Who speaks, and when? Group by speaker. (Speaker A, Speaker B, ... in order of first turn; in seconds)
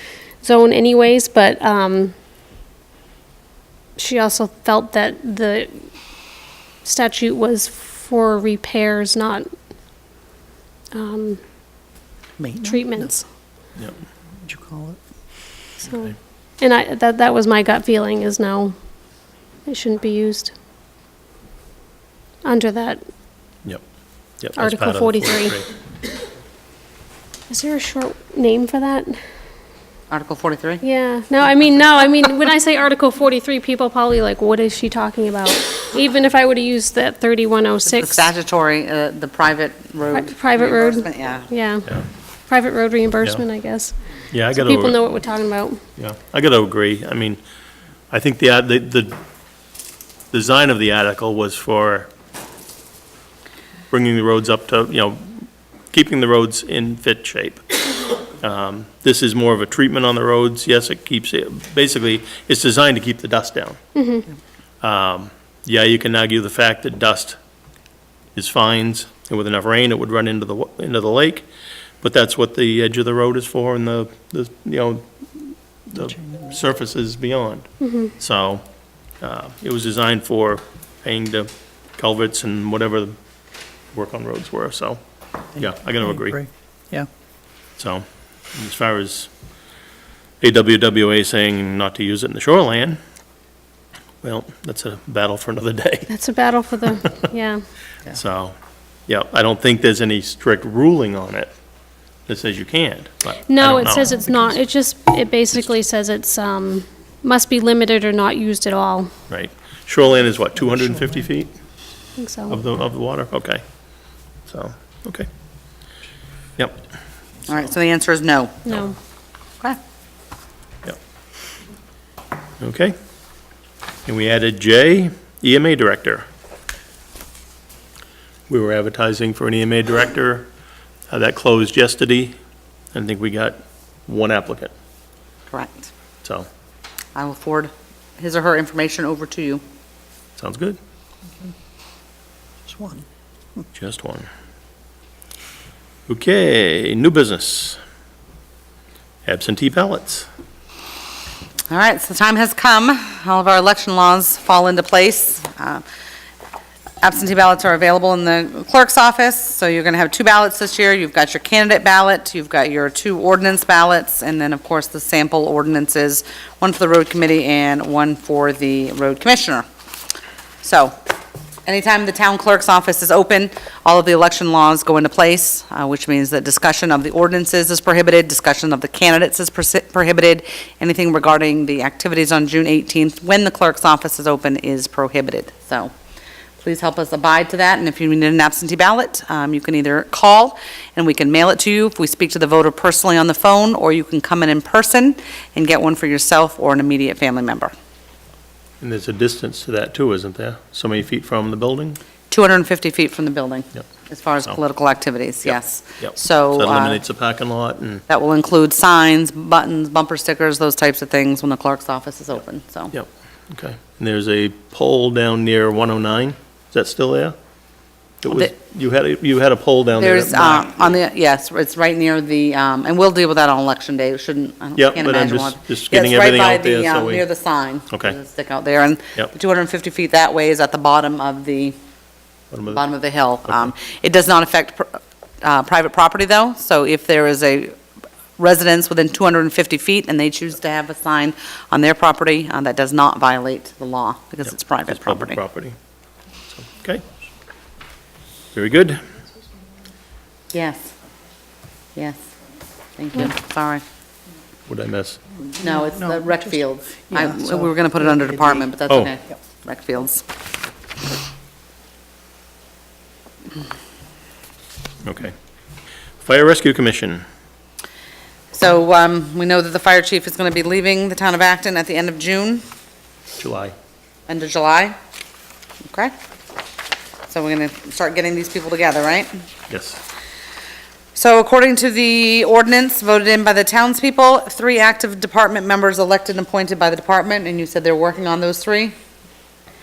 Speaker A: 0.4-2.1, 4.0-5.8, 6.8-9.5, 10.9-11.4, 12.6-13.2, 15.8-18.7, 19.6-20.5, 22.4-23.0, 24.6-25.6, 27.5-29.2, 30.8-38.3, 40.1-45.8, 63.9-64.3, 77.8-78.1, 96.1-97.6, 103.5-109.1, 112.2-112.6, 118.7-118.9
Speaker B: 12.4-13.1, 14.4-15.0, 76.0-76.5, 85.7-87.1, 142.6-143.1, 255.6-256.5, 257.1-258.6
Speaker C: 24.4-25.6, 44.3-45.0, 46.0-47.4, 48.1-49.1, 50.3-52.1, 53.9-63.8, 64.8-67.4, 68.3-71.5, 72.0-77.6, 78.2-78.6, 79.2-83.1, 83.9-85.0, 85.6-86.4, 87.8-88.0, 88.5-89.3, 90.4-93.0, 94.2-96.1, 98.1-98.5, 99.1-101.5, 102.3-104.2, 109.3-111.5, 112.5-113.6, 114.5-115.3, 116.6-116.8, 122.6-123.0, 124.0-126.2, 128.5-130.5, 131.1-132.3, 132.9-134.7, 140.4-140.8, 143.7-144.3, 146.1-147.8, 149.2-150.3, 198.8-202.0, 205.4-208.0, 212.9-217.3, 218.2-221.0, 224.8-227.2, 227.9-228.1, 232.5-232.8, 244.9-245.8, 246.6-247.0, 248.5-249.0, 254.7-255.2, 265.0-265.3, 266.2-267.2, 273.4-273.7, 279.7-280.0
Speaker D: 30.1-30.8, 37.9-41.5, 117.5-118.7, 135.5-135.9, 137.1-139.6, 151.7-155.8, 157.0-169.7, 170.6-170.9, 171.7-185.9, 186.6-197.7, 202.3-207.0, 208.1-212.9, 220.0-231.8, 232.7-237.7, 238.4-245.4, 250.5-250.9, 253.0-253.8, 255.6-260.2, 268.5-272.6, 274.3-274.9, 275.9-276.1, 277.3-279.3, 281.1-288.9